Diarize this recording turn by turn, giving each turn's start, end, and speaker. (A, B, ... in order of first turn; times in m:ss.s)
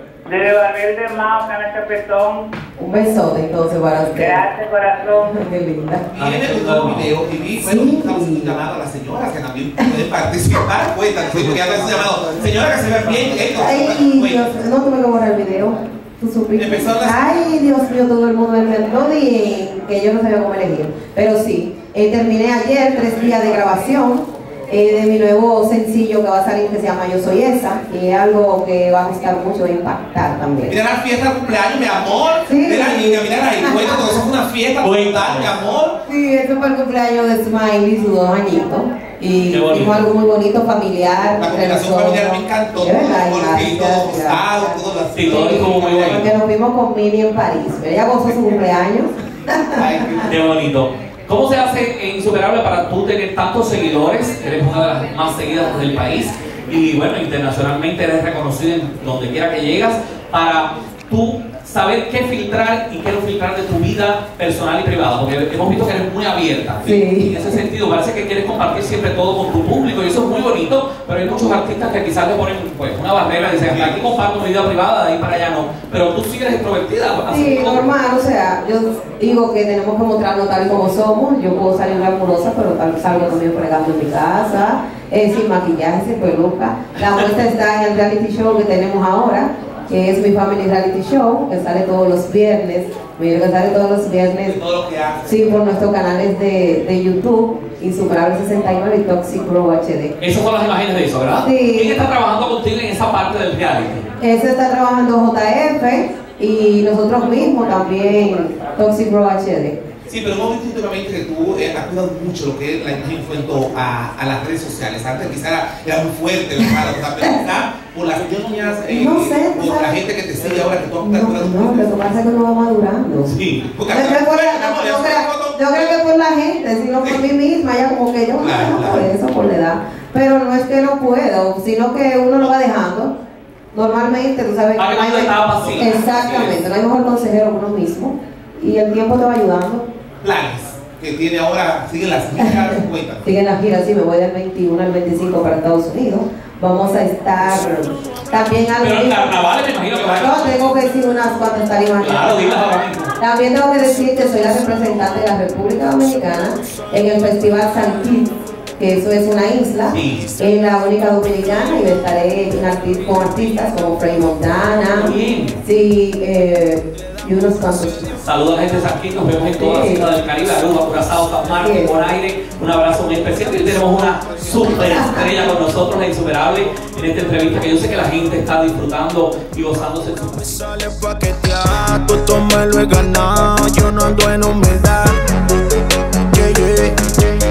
0:00.2-0:02.5 A
0:02.8-0:04.4 B
0:04.1-0:05.3 A
0:05.3-0:06.1 B
0:06.1-0:14.5 C
0:06.2-0:07.1 D
0:07.6-0:08.6 B
0:13.5-0:30.7 B
0:16.6-0:17.3 C
0:30.7-0:36.0 C
0:32.5-0:34.2 B
0:34.8-0:35.5 D
0:36.0-0:50.2 B
0:39.5-0:40.1 D
0:41.4-0:46.2 C
0:45.1-0:46.3 D
0:48.3-0:48.6 C
0:49.8-0:50.3 C
0:50.2-1:17.9 D
1:06.8-1:07.6 B
1:13.4-1:14.0 C
1:17.3-1:34.6 B
1:34.4-1:35.6 C
1:35.3-1:40.1 B
1:40.2-1:44.1 D
1:41.3-1:42.0 B
1:44.2-1:49.8 B
1:50.1-2:02.2 C
1:56.6-1:57.4 B
1:58.9-1:59.9 B
2:01.0-2:03.3 B
2:03.2-2:03.7 D
2:03.6-2:06.0 C
2:03.8-2:13.1 B
2:08.4-2:09.1 C
2:13.7-2:19.9 B
2:14.8-2:16.5 D
2:15.6-2:16.4 C
2:20.2-2:23.3 C
2:22.4-2:29.3 B
2:28.8-2:30.6 D
2:30.0-2:32.5 B
2:32.0-2:33.1 D
2:33.2-2:48.2 B
2:39.9-2:40.4 D
2:44.9-2:45.6 D
2:48.2-3:00.5 D
2:49.6-2:50.1 B
2:51.6-2:51.9 B
2:54.7-2:55.5 B
3:00.3-3:05.2 E
3:06.3-3:07.0 E